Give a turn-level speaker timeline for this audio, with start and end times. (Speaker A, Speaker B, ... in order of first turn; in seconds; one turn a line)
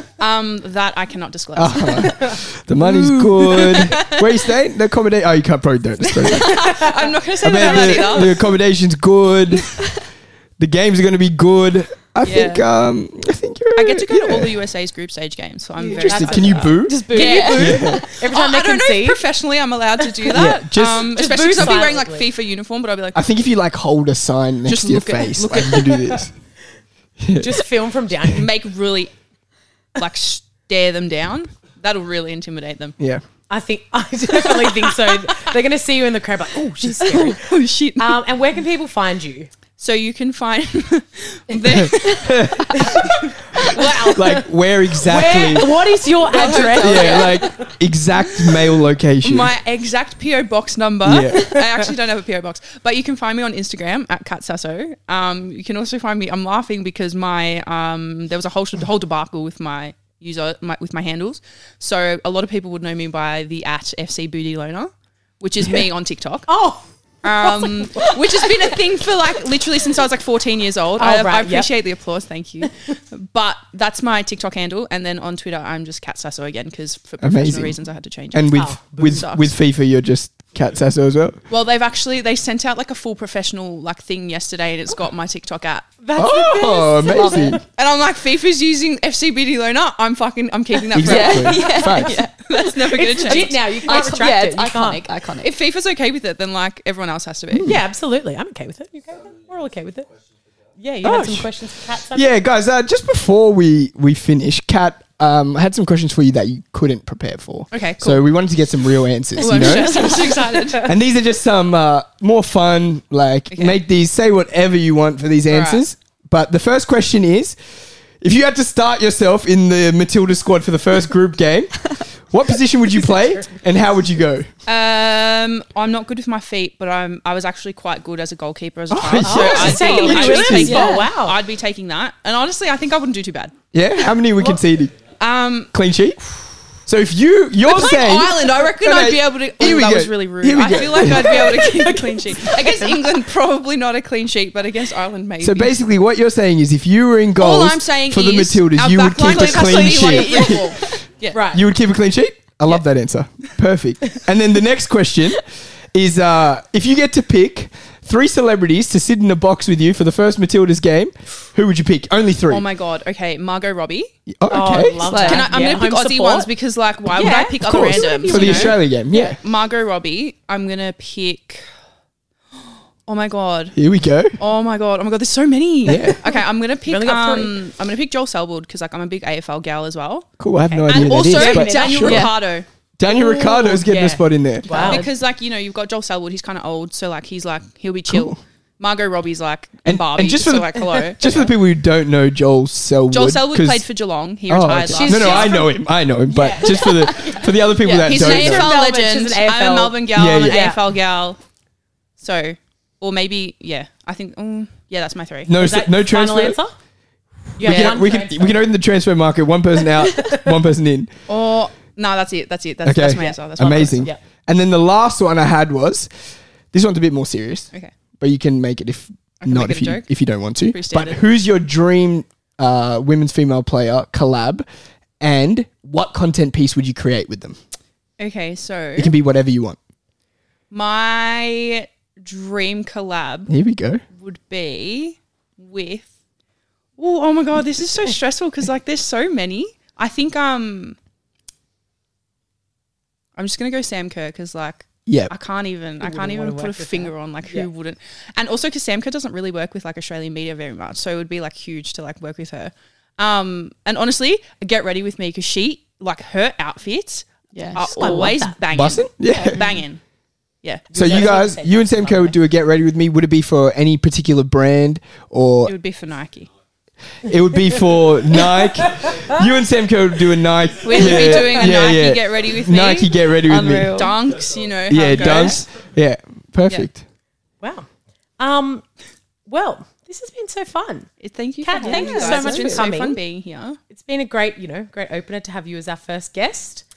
Speaker A: 0.2-2.2
Speaker B: 1.5-6.8
Speaker C: 1.8-2.4
Speaker C: 3.0-3.6
Speaker A: 3.4-4.2
Speaker A: 6.2-8.5
Speaker B: 7.4-14.6
Speaker C: 7.5-8.2
Speaker A: 12.2-12.6
Speaker A: 13.8-23.3
Speaker C: 15.8-19.2
Speaker B: 15.9-18.0
Speaker D: 16.8-18.1
Speaker B: 20.3-21.8
Speaker C: 21.0-22.3
Speaker B: 23.1-26.6
Speaker A: 24.6-26.1
Speaker C: 25.9-26.4
Speaker B: 27.2-27.6
Speaker C: 27.3-28.5
Speaker A: 28.2-29.2
Speaker A: 29.9-33.0
Speaker B: 33.0-33.2
Speaker C: 33.5-39.5
Speaker A: 37.0-38.2
Speaker A: 39.8-43.1
Speaker B: 41.7-42.9
Speaker A: 43.6-44.1
Speaker C: 43.7-44.5
Speaker B: 44.1-45.8
Speaker C: 45.0-47.5
Speaker A: 46.2-47.7
Speaker B: 46.4-49.5
Speaker A: 49.2-66.7
Speaker B: 51.0-51.5
Speaker C: 66.5-68.8
Speaker A: 67.2-79.5
Speaker C: 71.0-71.7
Speaker B: 77.2-81.4
Speaker C: 78.5-79.2
Speaker A: 81.5-85.9
Speaker C: 86.0-87.6
Speaker B: 86.1-87.6
Speaker D: 87.0-87.5
Speaker A: 87.7-91.9
Speaker B: 90.9-92.2
Speaker D: 91.0-95.5
Speaker C: 91.5-92.0
Speaker A: 92.5-94.2
Speaker C: 93.2-95.1
Speaker A: 95.4-97.7
Speaker B: 97.5-97.8
Speaker C: 97.6-100.1
Speaker C: 100.7-102.3
Speaker B: 101.0-101.6
Speaker B: 102.1-110.1
Speaker A: 107.7-108.3
Speaker A: 109.4-110.9
Speaker C: 109.4-110.8
Speaker B: 110.8-124.5
Speaker A: 113.5-113.8
Speaker A: 115.5-115.8
Speaker C: 123.0-123.5
Speaker A: 124.7-133.5
Speaker B: 128.9-130.8
Speaker C: 129.2-131.4
Speaker D: 129.5-131.1
Speaker B: 133.7-134.9
Speaker A: 135.2-135.7
Speaker B: 135.7-141.7
Speaker A: 137.6-145.8
Speaker C: 140.6-143.0
Speaker B: 145.4-150.8
Speaker A: 147.4-151.4
Speaker D: 149.2-151.0
Speaker C: 151.3-151.7
Speaker B: 151.4-162.7
Speaker A: 162.5-164.1
Speaker B: 164.3-165.1
Speaker C: 164.5-168.8
Speaker D: 165.1-165.6
Speaker A: 165.1-171.6
Speaker B: 167.6-169.4
Speaker A: 173.0-173.8
Speaker B: 173.7-174.4
Speaker A: 174.4-180.3
Speaker B: 175.8-176.2
Speaker C: 176.8-177.6
Speaker B: 180.4-182.3
Speaker C: 180.7-182.4
Speaker A: 180.8-182.7
Speaker B: 183.0-185.1
Speaker C: 183.1-185.1
Speaker A: 184.6-191.5
Speaker B: 188.1-188.4
Speaker B: 189.8-193.8
Speaker A: 193.1-195.7
Speaker B: 194.5-198.7
Speaker C: 194.9-195.7
Speaker C: 196.3-200.8
Speaker D: 196.7-197.3
Speaker A: 197.9-201.5
Speaker B: 200.1-200.7
Speaker A: 202.2-205.6
Speaker B: 205.5-206.6
Speaker C: 205.6-206.8
Speaker C: 207.5-208.7
Speaker B: 207.6-211.3
Speaker A: 207.7-208.0
Speaker A: 211.2-214.1
Speaker B: 212.8-224.6
Speaker C: 213.1-214.2
Speaker A: 219.4-221.2
Speaker B: 225.2-227.6
Speaker A: 228.2-229.1
Speaker B: 229.0-229.8
Speaker A: 230.7-233.6
Speaker B: 233.5-234.0
Speaker A: 234.1-236.1
Speaker A: 237.0-241.0
Speaker A: 243.3-261.4
Speaker B: 245.1-245.3
Speaker C: 246.0-247.7
Speaker D: 257.5-258.3
Speaker C: 257.7-258.6
Speaker B: 258.7-259.7
Speaker C: 259.2-259.6
Speaker D: 259.5-259.8
Speaker C: 260.9-262.4
Speaker B: 260.9-265.7
Speaker A: 265.6-266.5
Speaker B: 267.2-274.1
Speaker A: 270.8-275.8
Speaker C: 270.9-271.9
Speaker D: 273.4-274.1
Speaker B: 274.9-277.0
Speaker C: 277.6-278.9
Speaker C: 279.4-283.2
Speaker A: 281.2-283.8
Speaker D: 281.8-282.9
Speaker C: 283.9-286.9